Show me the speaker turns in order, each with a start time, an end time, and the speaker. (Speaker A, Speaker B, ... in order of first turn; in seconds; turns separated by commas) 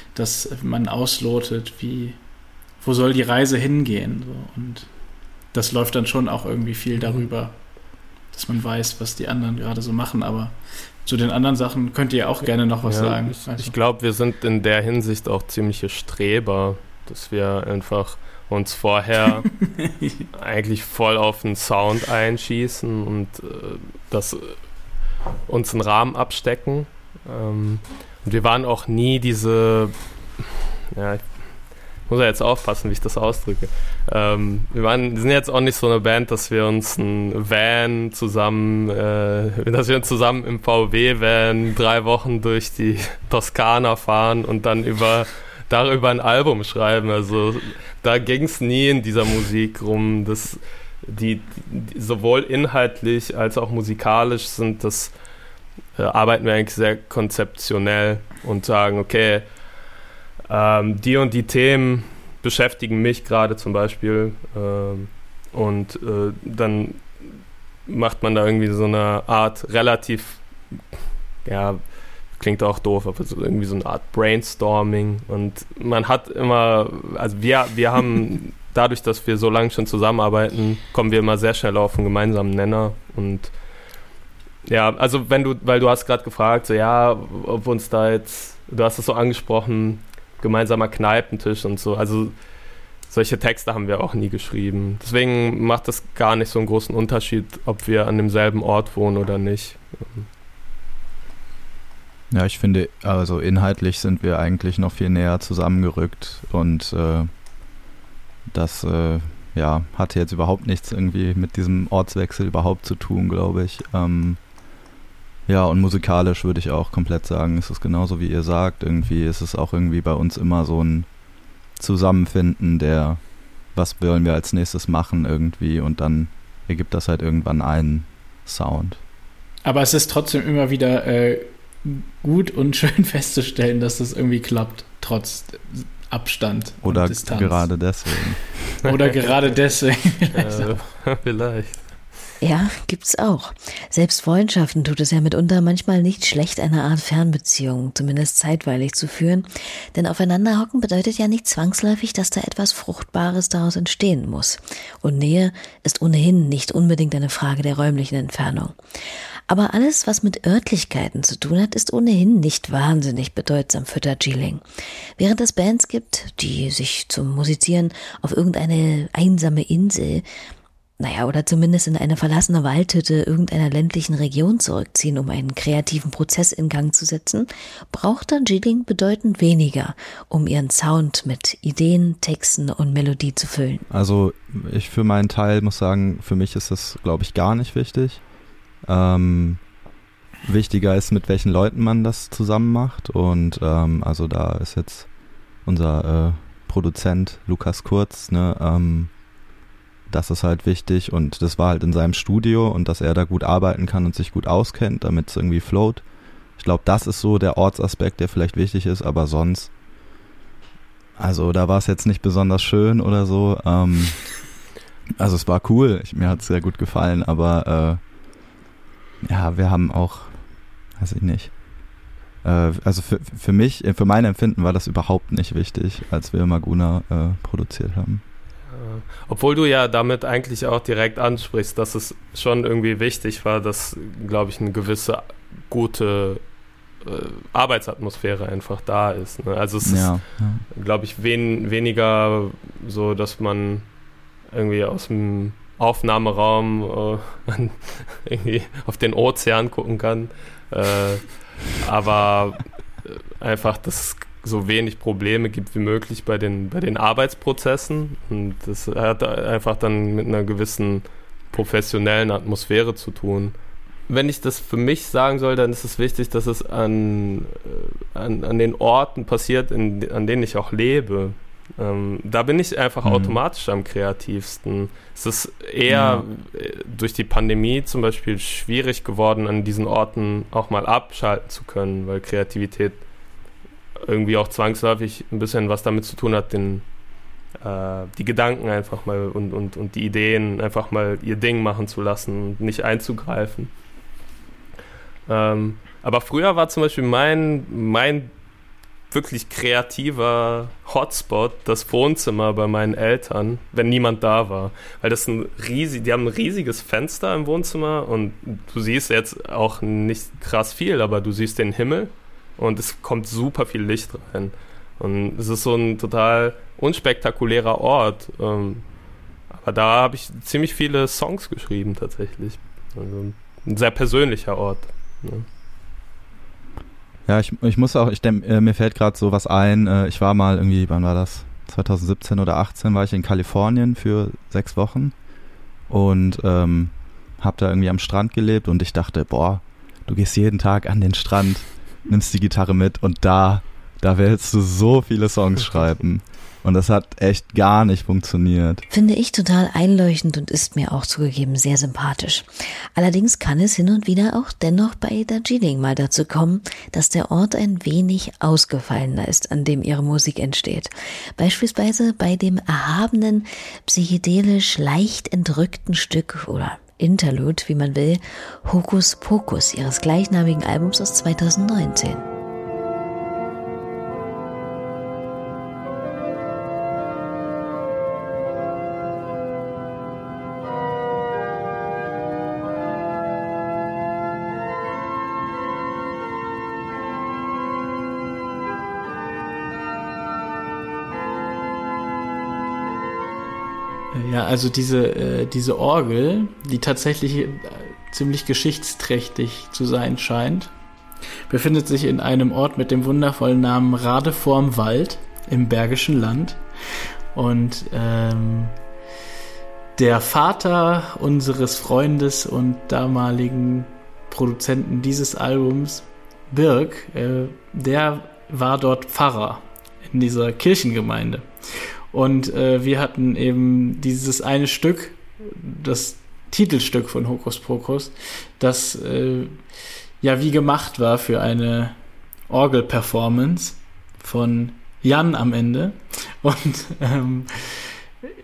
Speaker A: 0.1-2.2, Speaker A: 2.8-4.9, Speaker A: 5.5-7.6, Speaker B: 7.0-7.2, Speaker A: 8.3-13.7, Speaker B: 12.9-19.5, Speaker A: 19.8-20.2, Speaker B: 20.3-24.6, Speaker B: 25.5-31.4, Speaker B: 32.1-55.1, Speaker B: 56.0-59.5, Speaker B: 60.5-67.3, Speaker B: 67.9-70.5, Speaker B: 71.5-71.8, Speaker B: 72.3-83.5, Speaker B: 84.7-92.4, Speaker B: 93.1-100.3, Speaker C: 102.3-107.3, Speaker C: 108.5-114.4, Speaker C: 115.5-121.1, Speaker C: 121.8-129.0, Speaker A: 129.7-137.9, Speaker C: 136.8-138.8, Speaker A: 138.8-140.7, Speaker B: 139.3-139.6, Speaker B: 140.3-141.9, Speaker D: 142.4-158.8, Speaker D: 159.5-164.6, Speaker D: 165.2-170.3, Speaker D: 171.0-183.8, Speaker C: 183.9-188.2, Speaker C: 188.8-189.7, Speaker C: 190.4-195.1, Speaker C: 195.7-199.1, Speaker C: 200.1-206.1, Speaker C: 206.6-209.7, Speaker C: 211.2-214.4, Speaker C: 215.2-218.0, Speaker C: 219.2-220.4, Speaker C: 220.9-221.6, Speaker C: 222.4-228.2, Speaker B: 228.7-236.4, Speaker B: 237.0-243.9, Speaker C: 239.8-240.7, Speaker B: 244.5-263.6, Speaker B: 264.1-283.0, Speaker C: 273.0-273.4, Speaker C: 275.9-276.2, Speaker B: 284.1-286.9, Speaker B: 287.6-293.7, Speaker B: 295.3-298.3, Speaker B: 299.1-318.9, Speaker B: 319.5-325.5, Speaker C: 327.3-335.1, Speaker C: 335.9-348.9, Speaker D: 348.9-372.2, Speaker A: 394.1-400.7, Speaker A: 401.5-406.6, Speaker A: 407.4-408.8, Speaker A: 410.0-429.6, Speaker A: 430.2-432.0, Speaker A: 432.5-437.9